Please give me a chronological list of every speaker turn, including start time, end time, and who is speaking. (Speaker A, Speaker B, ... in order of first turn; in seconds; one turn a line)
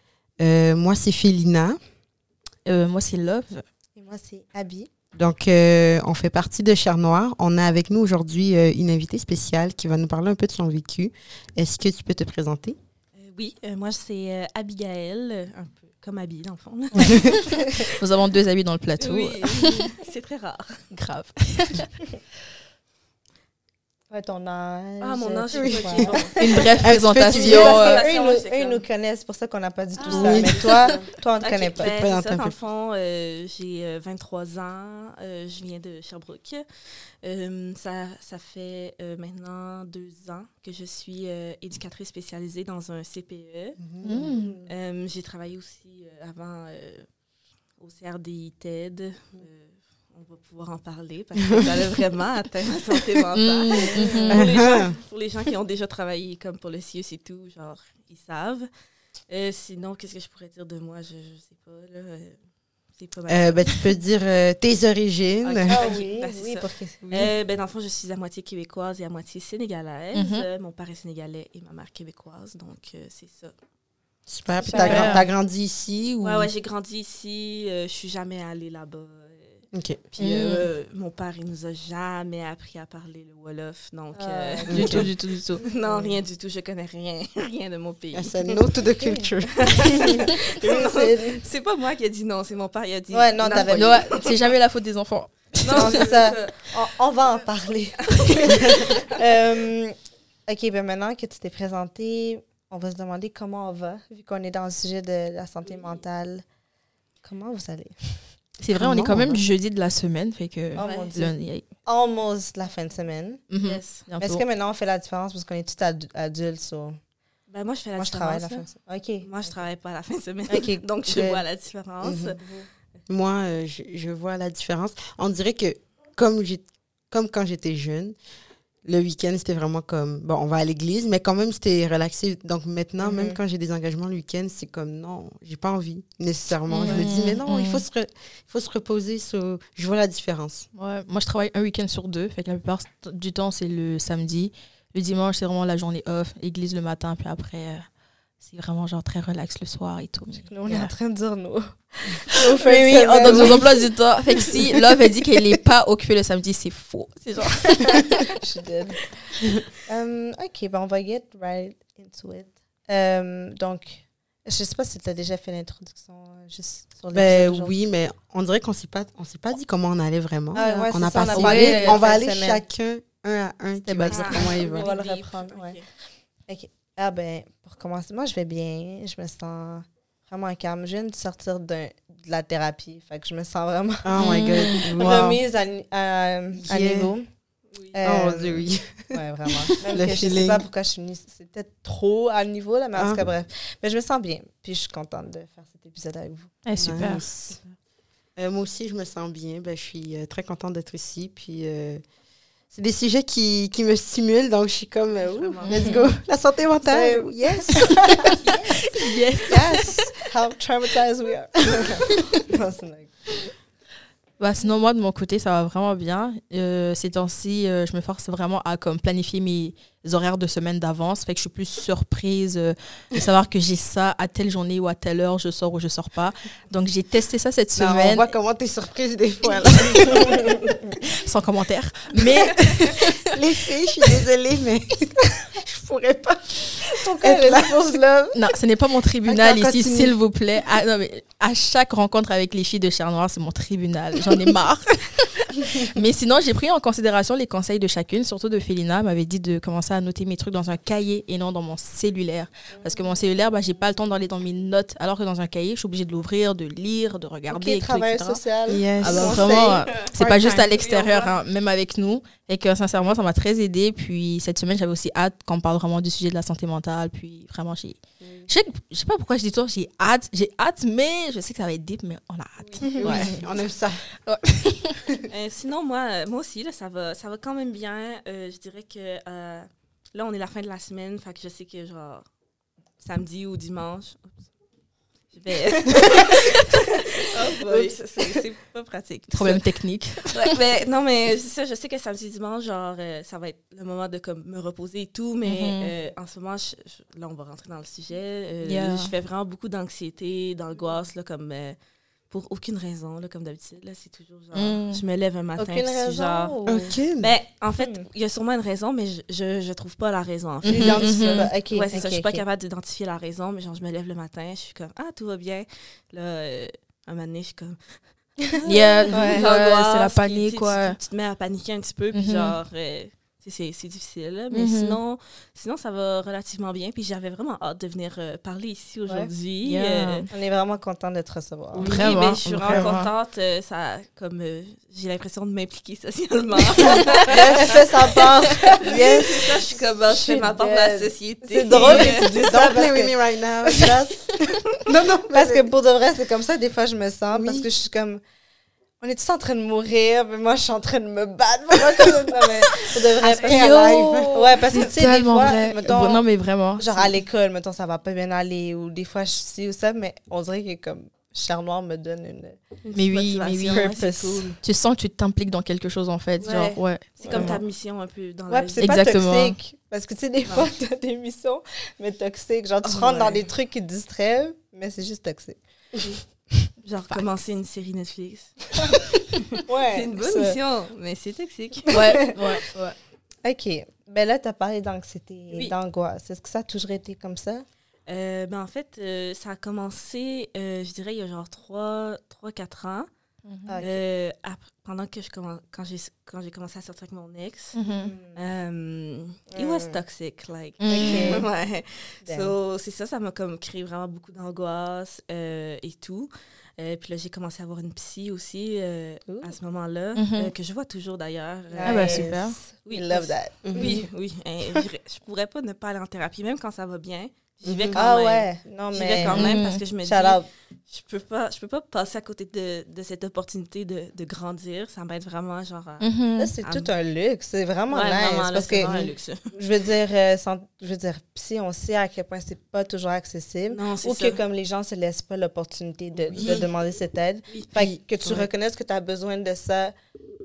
Speaker A: 0.4-1.8
Speaker B: 2.6-3.6
Speaker C: 4.0-4.9
Speaker A: 5.2-12.8
Speaker D: 13.2-17.9
Speaker B: 17.0-19.9
Speaker D: 19.0-20.9
Speaker B: 20.9-22.0
Speaker C: 24.1-26.6
Speaker D: 25.0-26.7
Speaker A: 25.5-27.8
Speaker B: 26.4-28.0
Speaker D: 27.2-28.8
Speaker C: 27.3-31.9
Speaker D: 30.0-43.8
Speaker A: 30.1-30.7
Speaker B: 30.4-30.7
Speaker A: 31.8-32.5
Speaker A: 43.8-44.2
Speaker C: 44.0-44.7
Speaker B: 44.0-44.6
Speaker D: 44.7-47.1
Speaker D: 47.8-58.7
Speaker B: 53.3-54.5
Speaker C: 53.8-54.5
Speaker A: 54.3-54.9
Speaker D: 59.3-63.9
Speaker A: 63.3-66.0
Speaker D: 65.4-73.5
Speaker C: 65.7-67.3
Speaker A: 67.1-67.3
Speaker B: 70.1-70.5
Speaker A: 74.3-76.5
Speaker C: 74.6-75.3
Speaker B: 74.8-75.2
Speaker D: 74.8-75.1
Speaker D: 76.2-88.6
Speaker A: 79.7-80.0
Speaker B: 80.2-80.7
Speaker C: 84.1-85.0
Speaker A: 84.7-85.1
Speaker B: 84.7-85.6
Speaker A: 85.8-86.1
Speaker A: 88.1-90.2
Speaker C: 89.0-91.4
Speaker D: 89.6-94.5
Speaker C: 93.1-94.1
Speaker B: 93.5-96.1
Speaker D: 95.6-96.7
Speaker C: 95.7-100.0
Speaker D: 98.0-99.2
Speaker C: 100.5-106.4
Speaker D: 105.7-106.0
Speaker C: 107.2-108.4
Speaker B: 108.6-111.6
Speaker A: 108.7-109.4
Speaker C: 110.8-113.4
Speaker D: 110.8-111.2
Speaker B: 113.5-114.4
Speaker D: 113.5-114.1
Speaker C: 114.2-117.0
Speaker D: 117.5-122.4
Speaker C: 118.0-119.5
Speaker C: 120.5-121.4
Speaker A: 122.0-122.4
Speaker C: 122.4-122.7
Speaker A: 123.1-128.2
Speaker A: 128.8-140.7
Speaker C: 133.0-133.4
Speaker B: 136.7-137.8
Speaker B: 140.7-147.9
Speaker B: 148.4-150.9
Speaker C: 150.5-153.7
Speaker B: 152.6-158.2
Speaker A: 153.1-153.6
Speaker C: 158.4-159.1
Speaker C: 159.9-167.7
Speaker A: 167.1-174.9
Speaker C: 170.5-172.6
Speaker B: 171.3-172.0
Speaker B: 173.8-174.4
Speaker D: 174.1-175.9
Speaker C: 174.4-175.9
Speaker C: 176.5-187.3
Speaker A: 184.0-185.4
Speaker B: 184.2-184.9
Speaker A: 186.7-187.1
Speaker C: 187.9-197.6
Speaker A: 188.0-190.7
Speaker A: 192.9-193.3
Speaker B: 196.7-197.5
Speaker A: 196.8-197.5
Speaker A: 198.4-202.0
Speaker A: 202.7-208.2
Speaker D: 205.1-206.0
Speaker B: 205.7-206.1
Speaker C: 206.8-208.4
Speaker B: 208.5-210.0
Speaker C: 209.5-213.4
Speaker B: 214.4-228.3
Speaker A: 227.8-230.6
Speaker B: 231.2-233.3
Speaker A: 232.7-238.4
Speaker C: 237.0-238.0
Speaker B: 238.3-258.4
Speaker A: 239.3-240.2
Speaker C: 257.5-259.9
Speaker A: 258.7-260.7
Speaker B: 258.9-273.5
Speaker D: 259.1-259.4
Speaker D: 260.8-261.3
Speaker A: 273.0-274.1
Speaker B: 274.2-275.0
Speaker D: 275.3-282.2
Speaker D: 283.0-284.4
Speaker D: 285.3-301.8
Speaker C: 287.7-288.4
Speaker B: 289.3-290.5
Speaker B: 295.4-295.9
Speaker B: 298.6-299.1
Speaker D: 302.3-306.6
Speaker B: 304.6-305.0
Speaker C: 305.6-307.0
Speaker A: 306.7-307.3
Speaker D: 307.2-330.3
Speaker C: 307.8-308.1
Speaker B: 310.6-311.5
Speaker C: 310.6-312.4
Speaker B: 318.7-321.0
Speaker C: 319.1-319.5
Speaker B: 322.1-322.6
Speaker B: 324.5-325.0
Speaker B: 329.6-330.3
Speaker C: 330.3-331.9
Speaker A: 331.7-332.9
Speaker D: 331.9-342.6
Speaker B: 331.9-333.1
Speaker C: 337.3-344.2
Speaker A: 341.7-345.7
Speaker C: 345.3-348.2
Speaker A: 347.3-347.7
Speaker C: 349.0-353.8
Speaker A: 353.2-355.9
Speaker B: 353.2-357.1
Speaker C: 354.3-362.6
Speaker D: 362.8-364.6
Speaker B: 362.9-363.9
Speaker C: 363.7-364.6
Speaker B: 364.6-367.6
Speaker D: 366.4-369.0
Speaker C: 367.2-367.6
Speaker C: 368.5-376.4
Speaker B: 368.8-369.6
Speaker D: 370.4-370.7
Speaker D: 372.8-373.5
Speaker D: 376.8-379.2
Speaker C: 379.7-380.6
Speaker D: 379.9-382.0
Speaker B: 381.9-383.0
Speaker C: 383.4-387.6
Speaker D: 388.1-393.1
Speaker B: 393.4-393.8
Speaker C: 393.7-394.0
Speaker D: 393.8-397.8
Speaker B: 397.8-398.1
Speaker C: 397.8-398.4
Speaker D: 398.3-412.3
Speaker C: 399.5-400.0
Speaker B: 400.8-401.4
Speaker C: 400.9-401.5
Speaker C: 402.2-402.5
Speaker C: 409.3-409.5
Speaker B: 410.2-410.5
Speaker C: 411.7-414.1
Speaker B: 411.9-412.6
Speaker D: 412.9-426.1
Speaker A: 413.6-414.0
Speaker A: 417.6-418.0
Speaker C: 417.9-420.5
Speaker B: 419.2-419.8
Speaker B: 426.0-426.5
Speaker C: 426.4-439.9
Speaker D: 426.6-426.9
Speaker D: 427.9-429.4
Speaker D: 433.7-434.4
Speaker A: 436.3-436.7
Speaker A: 437.8-438.5